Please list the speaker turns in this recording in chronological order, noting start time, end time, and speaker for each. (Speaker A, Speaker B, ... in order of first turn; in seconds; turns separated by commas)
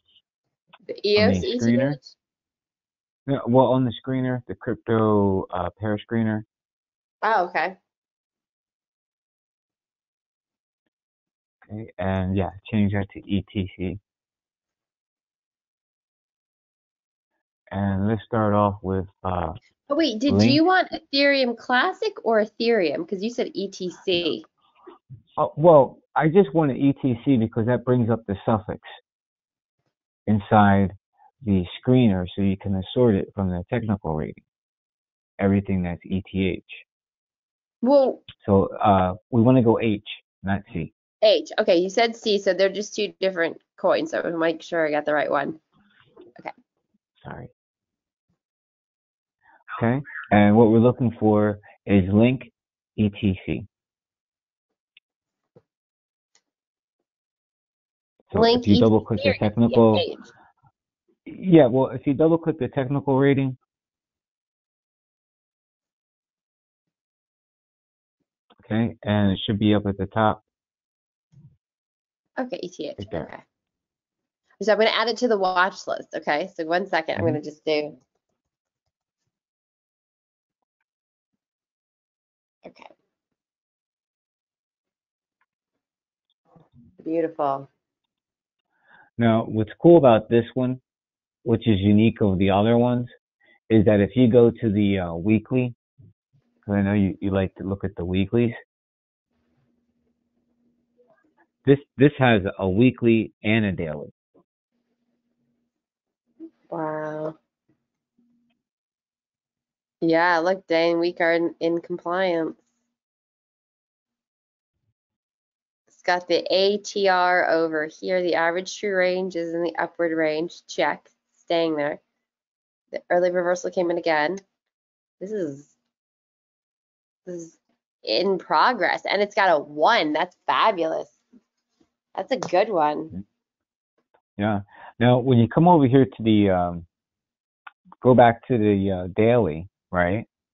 Speaker A: 0.9-2.1, Speaker B: 1.2-2.0, Speaker B: 3.3-6.5, Speaker A: 7.2-7.8, Speaker B: 11.7-14.0, Speaker B: 17.7-19.6, Speaker A: 19.9-24.5, Speaker B: 20.3-20.6, Speaker B: 25.4-28.9, Speaker B: 30.3-34.4, Speaker B: 35.4-36.9, Speaker A: 37.8-38.2, Speaker B: 38.4-40.9, Speaker A: 41.2-45.6, Speaker B: 47.2-47.5, Speaker B: 49.8-53.7, Speaker B: 58.3-60.0, Speaker A: 58.3-60.3, Speaker B: 61.3-63.6, Speaker B: 68.6-70.4, Speaker A: 72.4-73.5, Speaker B: 73.0-73.3, Speaker A: 74.6-78.0, Speaker A: 82.7-82.9, Speaker A: 87.0-87.7, Speaker B: 89.2-90.8, Speaker B: 91.5-93.1, Speaker B: 93.7-95.8, Speaker B: 96.7-98.6, Speaker B: 101.7-104.1, Speaker A: 106.7-107.4, Speaker A: 110.0-112.6, Speaker A: 115.9-122.0, Speaker A: 122.9-124.4, Speaker A: 125.2-125.8, Speaker A: 127.3-131.2, Speaker A: 132.2-133.2, Speaker B: 134.4-136.9, Speaker B: 138.0-140.3